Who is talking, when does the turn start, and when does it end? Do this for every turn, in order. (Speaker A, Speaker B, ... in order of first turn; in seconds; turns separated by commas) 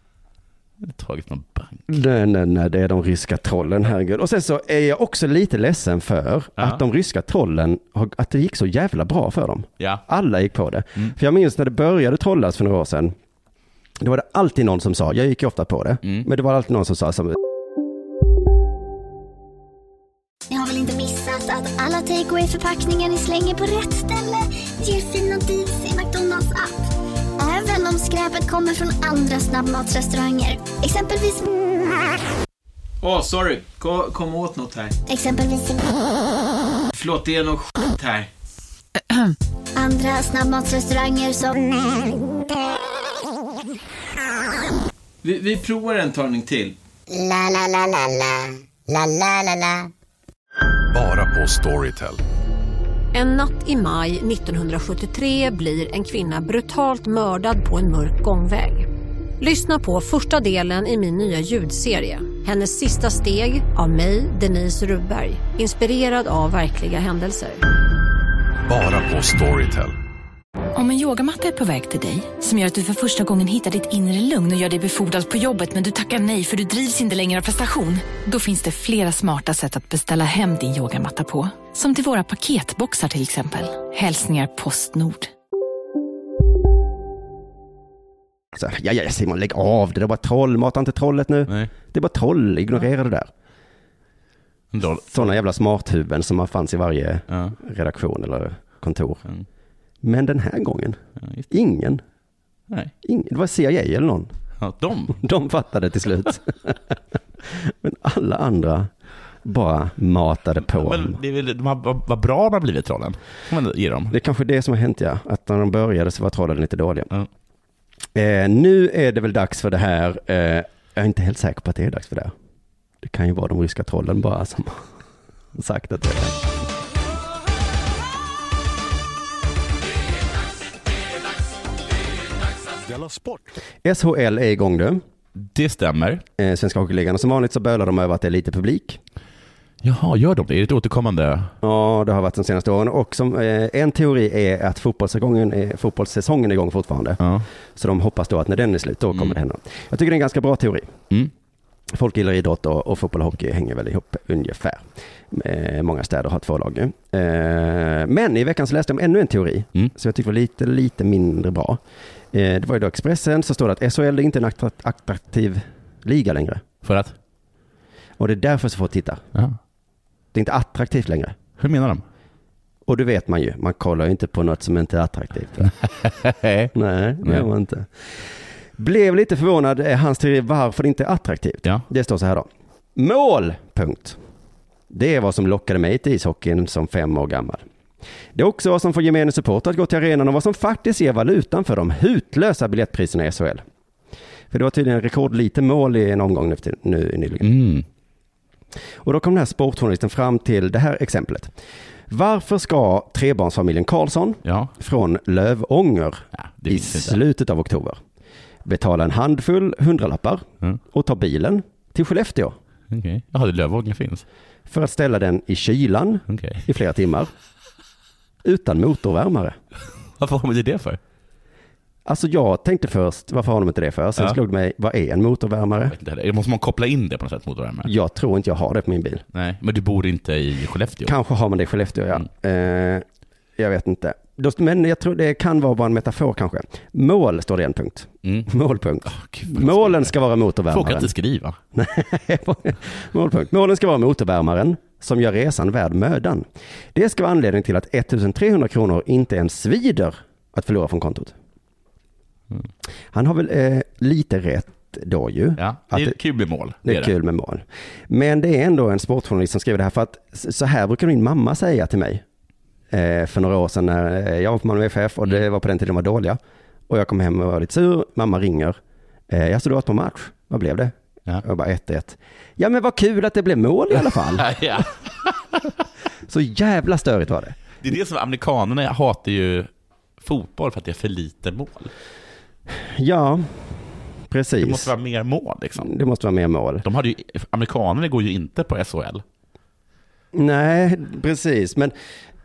Speaker A: 0.8-1.8, Speaker B: 1.9-13.1, Speaker B: 14.0-17.4, Speaker C: 20.5-26.8, Speaker C: 27.4-31.4, Speaker D: 33.0-35.0, Speaker C: 35.1-36.0, Speaker D: 36.9-38.3, Speaker C: 39.8-42.0, Speaker D: 45.2-46.8, Speaker E: 50.9-52.2, Speaker F: 53.1-58.9, Speaker F: 59.4-67.6, Speaker E: 68.7-69.9, Speaker G: 70.7-85.3, Speaker B: 88.5-93.3, Speaker A: 94.7-95.3, Speaker B: 95.1-99.2, Speaker B: 100.0-101.0, Speaker B: 101.5-102.0, Speaker B: 103.0-104.3, Speaker A: 104.6-105.2, Speaker B: 105.1-108.9, Speaker B: 109.4-111.2, Speaker A: 110.7-114.1, Speaker B: 114.1-117.1, Speaker B: 118.1-122.3, Speaker B: 123.0-124.8, Speaker B: 125.5-126.4, Speaker B: 133.8-135.0, Speaker A: 135.4-136.2, Speaker B: 136.4-139.0, Speaker A: 139.8-141.5, Speaker B: 141.6-147.2, Speaker B: 147.8-150.9, Speaker B: 151.9-161.8, Speaker B: 162.3-166.6, Speaker A: 166.8-167.1, Speaker B: 168.2-169.2, Speaker B: 170.3-171.3, Speaker A: 171.6-172.0, Speaker B: 172.8-175.7, Speaker A: 175.8-176.7, Speaker B: 176.7-184.2, Speaker B: 184.9-187.6, Speaker B: 188.3-193.6, Speaker B: 194.5-197.5, Speaker A: 197.4-197.8, Speaker B: 199.0-201.5, Speaker B: 202.1-208.0, Speaker A: 204.4-204.7, Speaker A: 206.5-207.2, Speaker B: 208.6-212.6, Speaker A: 212.9-214.2, Speaker B: 214.7-217.3, Speaker A: 216.3-216.6, Speaker B: 218.4-219.6, Speaker A: 220.2-221.0, Speaker B: 222.1-225.9, Speaker A: 225.9-227.9, Speaker B: 227.8-229.2, Speaker A: 229.3-231.1, Speaker B: 231.0-233.1, Speaker B: 233.6-241.1, Speaker A: 238.2-238.5, Speaker A: 239.1-240.1, Speaker A: 240.7-241.6, Speaker B: 241.7-251.3, Speaker B: 253.1-256.1, Speaker A: 255.6-257.1, Speaker B: 256.8-262.2, Speaker B: 262.9-274.5, Speaker A: 274.3-275.6, Speaker B: 276.3-277.6, Speaker A: 277.8-279.7, Speaker A: 280.2-281.9, Speaker B: 282.8-284.9, Speaker A: 284.6-285.9, Speaker B: 285.8-286.9, Speaker A: 286.8-289.2, Speaker B: 290.3-291.9